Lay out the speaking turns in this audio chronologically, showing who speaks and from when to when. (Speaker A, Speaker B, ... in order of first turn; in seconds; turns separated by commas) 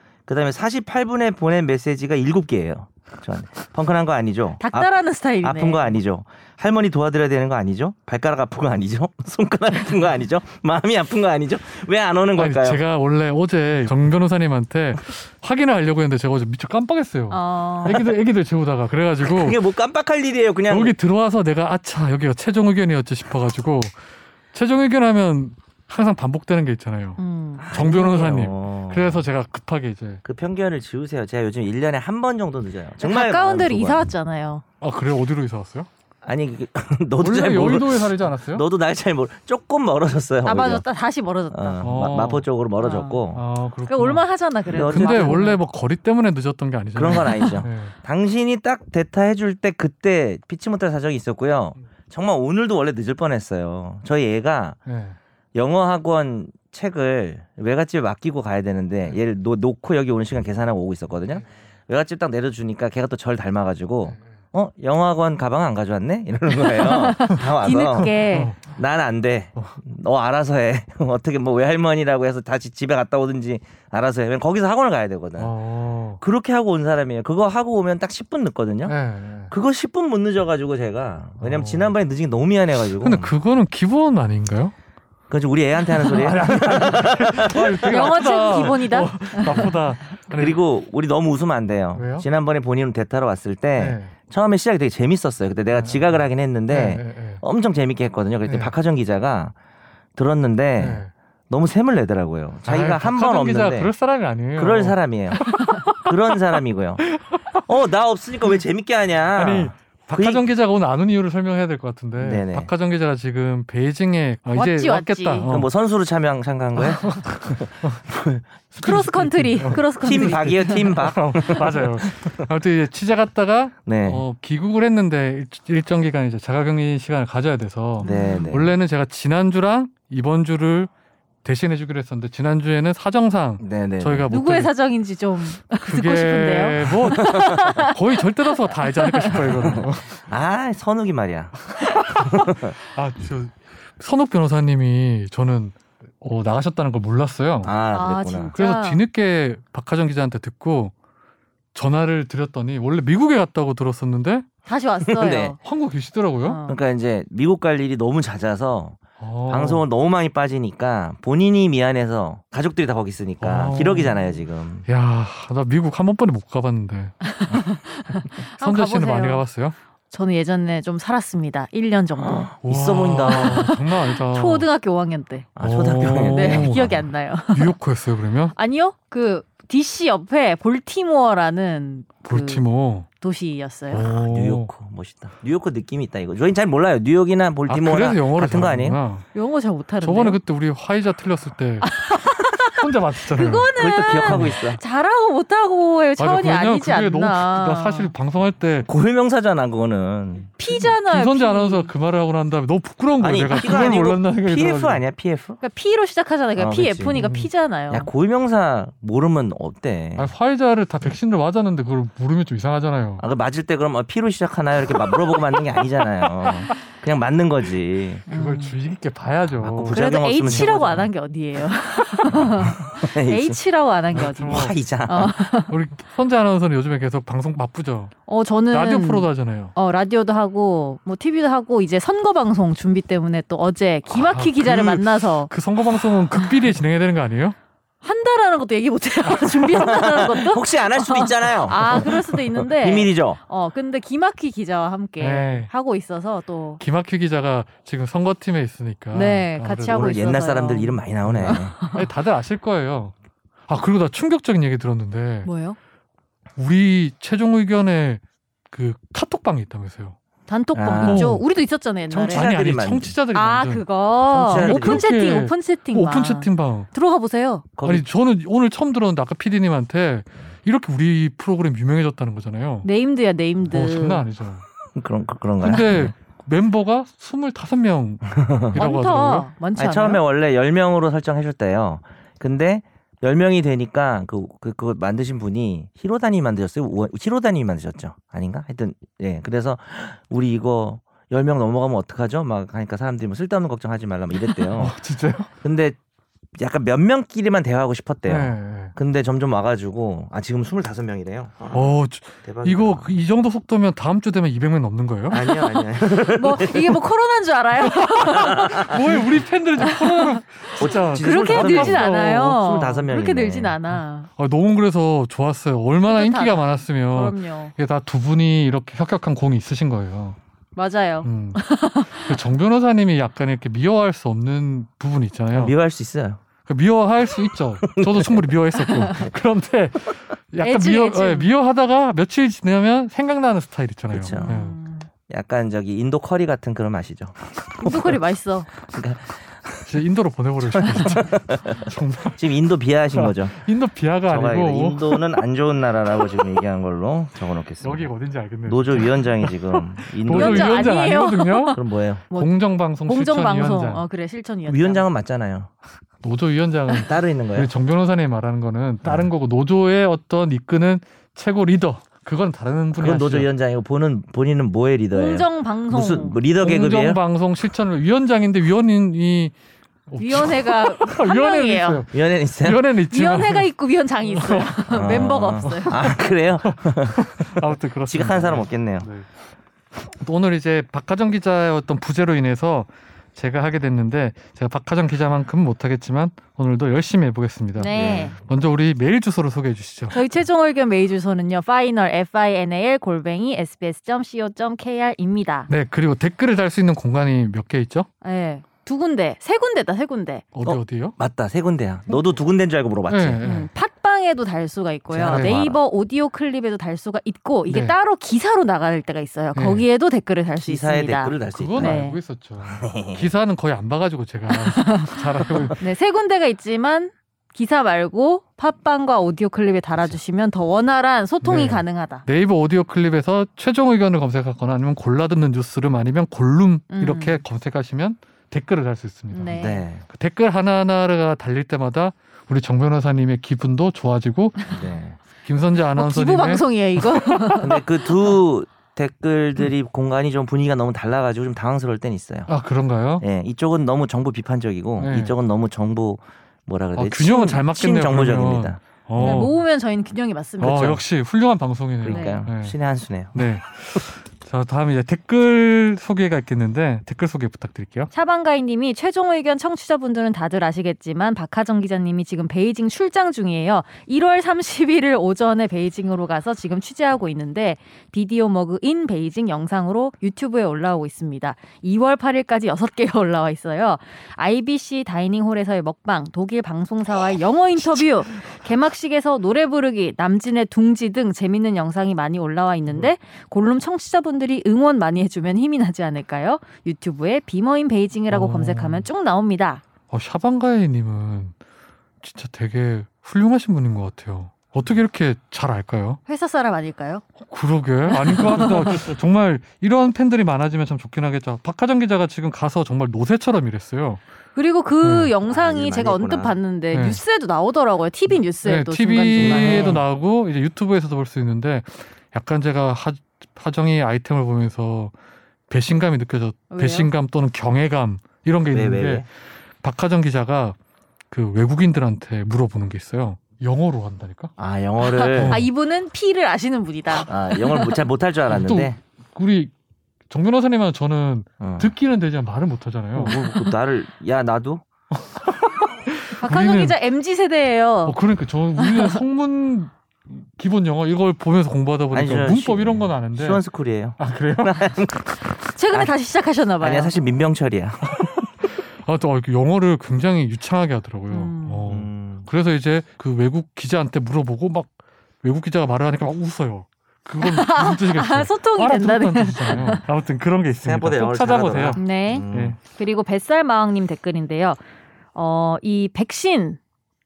Speaker A: 0.3-4.9, Speaker B: 4.6-6.0, Speaker A: 5.4-12.8, Speaker C: 12.4-19.6, Speaker B: 17.3-18.0, Speaker A: 19.2-20.9, Speaker C: 20.7-23.9, Speaker C: 24.5-30.2, Speaker B: 27.2-27.6, Speaker A: 27.6-29.2, Speaker A: 30.2-34.0, Speaker B: 33.0-34.6, Speaker C: 34.8-35.9, Speaker A: 36.2-40.8, Speaker C: 37.2-38.6, Speaker B: 40.4-41.8, Speaker A: 41.5-43.4, Speaker C: 41.8-42.5, Speaker B: 42.8-43.2, Speaker C: 43.3-44.2, Speaker B: 43.9-45.6, Speaker A: 44.7-45.4, Speaker C: 44.8-47.9, Speaker A: 46.9-54.8, Speaker C: 54.9-55.1, Speaker A: 55.5-75.5, Speaker B: 66.7-68.5, Speaker C: 68.2-68.7, Speaker C: 75.4-76.2, Speaker A: 76.2-78.9, Speaker C: 78.8-79.5, Speaker A: 79.5-83.3, Speaker C: 81.4-81.9, Speaker C: 82.9-84.7, Speaker A: 85.3-88.2, Speaker C: 85.9-90.6, Speaker B: 87.8-89.7, Speaker A: 90.3-99.5, Speaker C: 91.9-92.2, Speaker C: 93.8-94.1, Speaker C: 95.7-96.1, Speaker C: 96.7-97.4, Speaker C: 98.5-98.7, Speaker A: 100.2-103.9, Speaker C: 100.8-101.1, Speaker C: 102.7-106.3, Speaker A: 104.6-110.4, Speaker C: 107.2-107.6, Speaker C: 109.3-115.7, Speaker A: 112.2-112.7, Speaker B: 114.5-115.5, Speaker A: 115.5-118.5, Speaker C: 116.8-118.0, Speaker C: 118.7-130.9, Speaker B: 118.8-120.9, Speaker A: 120.0-122.4, Speaker A: 123.8-124.2, Speaker A: 128.0-128.8, Speaker B: 128.0-128.5, Speaker C: 131.4-134.7, Speaker A: 133.6-134.3, Speaker B: 134.3-139.5, Speaker C: 135.8-140.1, Speaker A: 137.2-137.5, Speaker A: 139.6-142.8, Speaker C: 142.0-147.7, Speaker A: 147.6-148.5, Speaker B: 147.9-149.0, Speaker C: 148.6-150.9, Speaker C: 151.7-154.4, Speaker B: 154.7-155.6, Speaker A: 155.1-155.6, Speaker C: 155.6-156.6, Speaker B: 156.4-156.8, Speaker A: 156.7-164.8, Speaker C: 159.2-159.8, Speaker C: 163.4-164.2, Speaker C: 164.8-167.2, Speaker B: 167.2-169.4, Speaker C: 168.6-169.7, Speaker B: 170.1-172.5, Speaker A: 172.2-173.7, Speaker C: 172.6-174.7, Speaker B: 173.2-175.5, Speaker A: 175.6-176.9, Speaker C: 175.6-178.5, Speaker B: 176.3-177.7, Speaker B: 178.5-182.6, Speaker C: 182.2-183.1, Speaker B: 183.2-184.0, Speaker C: 183.9-184.7, Speaker A: 184.1-189.0, Speaker C: 187.7-189.2, Speaker B: 189.3-190.4, Speaker C: 190.0-191.9, Speaker B: 191.8-198.1, Speaker C: 192.7-194.6, Speaker A: 193.8-194.8, Speaker C: 196.2-198.9, Speaker A: 198.8-200.5, Speaker B: 200.6-201.9, Speaker C: 200.8-205.0, Speaker A: 203.2-205.6, Speaker B: 205.6-208.1, Speaker A: 206.6-207.2, Speaker C: 207.1-207.5, Speaker A: 207.9-210.3, Speaker C: 210.2-213.2, Speaker A: 213.2-218.2, Speaker C: 218.3-220.7, Speaker B: 218.3-218.7, Speaker A: 219.6-221.1, Speaker B: 219.9-225.7, Speaker A: 222.3-223.6, Speaker C: 224.1-224.8, Speaker A: 224.4-225.5, Speaker C: 225.7-228.1, Speaker B: 228.3-235.5, Speaker C: 228.7-229.7, Speaker C: 234.1-237.6, Speaker B: 238.0-246.8, Speaker C: 239.2-239.8, Speaker A: 239.7-243.4, Speaker C: 245.2-245.7, Speaker C: 246.8-250.1, Speaker B: 249.1-252.0, Speaker A: 249.9-251.8, Speaker C: 251.2-253.1, Speaker C: 253.7-255.5, Speaker B: 255.4-255.8, Speaker C: 256.6-260.1, Speaker B: 260.5-262.5, Speaker A: 260.7-261.3, Speaker C: 261.0-261.4, Speaker C: 262.1-263.9, Speaker A: 262.1-263.1, Speaker B: 263.3-267.7, Speaker A: 264.3-265.1, Speaker C: 264.4-266.9, Speaker A: 267.8-268.1, Speaker C: 267.8-272.9, Speaker B: 272.8-274.2, Speaker C: 273.6-274.7, Speaker A: 274.9-276.1, Speaker C: 275.6-279.5, Speaker A: 278.3-278.8, Speaker B: 278.7-280.2, Speaker A: 279.8-294.9, Speaker C: 294.7-295.5, Speaker A: 295.6-296.0, Speaker A: 296.6-303.1, Speaker C: 298.3-298.9, Speaker C: 301.7-305.4, Speaker A: 305.3-307.0, Speaker B: 305.3-309.2, Speaker C: 307.9-312.8, Speaker A: 308.2-309.0, Speaker B: 309.8-314.3, Speaker A: 310.8-313.8, Speaker C: 313.9-320.4, Speaker B: 316.1-317.7, Speaker B: 320.8-322.4, Speaker C: 321.2-325.7, Speaker A: 325.5-326.4, Speaker C: 326.6-334.8, Speaker A: 327.9-328.4, Speaker B: 328.8-329.3, Speaker B: 330.6-331.5, Speaker A: 334.1-334.5, Speaker B: 334.3-335.1, Speaker A: 335.3-338.2, Speaker B: 337.8-338.7, Speaker A: 338.8-339.9, Speaker C: 339.9-342.4, Speaker A: 340.7-343.5, Speaker C: 343.1-345.2, Speaker A: 344.3-348.1, Speaker C: 347.8-351.8, Speaker A: 348.7-350.9, Speaker B: 350.3-351.8, Speaker A: 351.7-352.2, Speaker C: 352.3-354.0, Speaker B: 353.1-355.1, Speaker A: 354.7-355.7, Speaker C: 356.2-363.5, Speaker A: 357.0-357.7, Speaker A: 359.0-359.3, Speaker A: 363.0-367.2, Speaker B: 365.1-366.4, Speaker C: 366.6-369.5, Speaker C: 370.1-373.7, Speaker B: 370.2-372.0, Speaker A: 372.1-372.8, Speaker B: 373.1-376.0, Speaker C: 374.3-374.7, Speaker A: 374.9-379.1, Speaker C: 375.6-379.3, Speaker C: 380.1-390.2, Speaker B: 387.8-388.3, Speaker A: 387.9-388.3, Speaker B: 390.1-395.7, Speaker C: 395.7-398.1, Speaker B: 398.2-400.4, Speaker C: 400.5-401.1, Speaker A: 400.6-403.4, Speaker C: 403.1-403.7, Speaker B: 403.4-412.2, Speaker A: 405.1-405.8, Speaker C: 405.3-405.6, Speaker C: 407.7-407.9, Speaker C: 409.5-409.8, Speaker A: 410.6-412.1, Speaker C: 411.5-415.8, Speaker A: 412.6-413.3, Speaker B: 414.5-422.2, Speaker C: 421.4-434.7, Speaker B: 426.9-427.4, Speaker B: 429.3-429.8, Speaker A: 429.6-430.0, Speaker A: 434.7-435.2, Speaker C: 435.4-437.5, Speaker B: 436.0-437.8, Speaker A: 437.6-442.5, Speaker C: 442.5-443.2, Speaker A: 443.2-449.5, Speaker C: 445.0-445.3, Speaker C: 446.9-449.6, Speaker B: 449.2-451.0, Speaker C: 450.6-452.7, Speaker A: 452.0-453.5, Speaker B: 452.1-452.4, Speaker C: 453.3-458.1, Speaker B: 458.1-489.8, Speaker C: 488.3-489.1, Speaker C: 490.1-491.5, Speaker C: 492.2-496.2, Speaker B: 496.3-497.2, Speaker C: 497.4-504.2, Speaker B: 498.1-499.1, Speaker B: 504.5-510.0, Speaker C: 505.0-505.3, Speaker A: 505.4-506.5, Speaker C: 506.9-507.2, Speaker C: 508.6-515.1, Speaker A: 509.4-510.0, Speaker C: 515.7-519.3, Speaker B: 516.7-517.1, Speaker A: 518.7-519.2, Speaker C: 519.8-520.8, Speaker C: 521.3-524.5, Speaker A: 524.6-525.6, Speaker B: 525.0-527.9, Speaker C: 525.2-525.7, Speaker A: 527.1-529.0, Speaker C: 528.5-529.7, Speaker C: 530.3-533.4, Speaker A: 531.6-531.9, Speaker A: 533.1-534.9, Speaker C: 535.1-537.0, Speaker B: 536.4-538.1, Speaker C: 538.0-543.6, Speaker B: 538.8-539.2, Speaker A: 542.1-546.1, Speaker C: 544.2-544.9, Speaker B: 545.7-547.1, Speaker A: 546.8-548.5, Speaker C: 548.2-562.8, Speaker B: 551.3-551.9, Speaker A: 551.9-552.5, Speaker B: 557.4-560.0, Speaker A: 560.8-562.8, Speaker B: 562.0-564.8, Speaker B: 565.3-566.8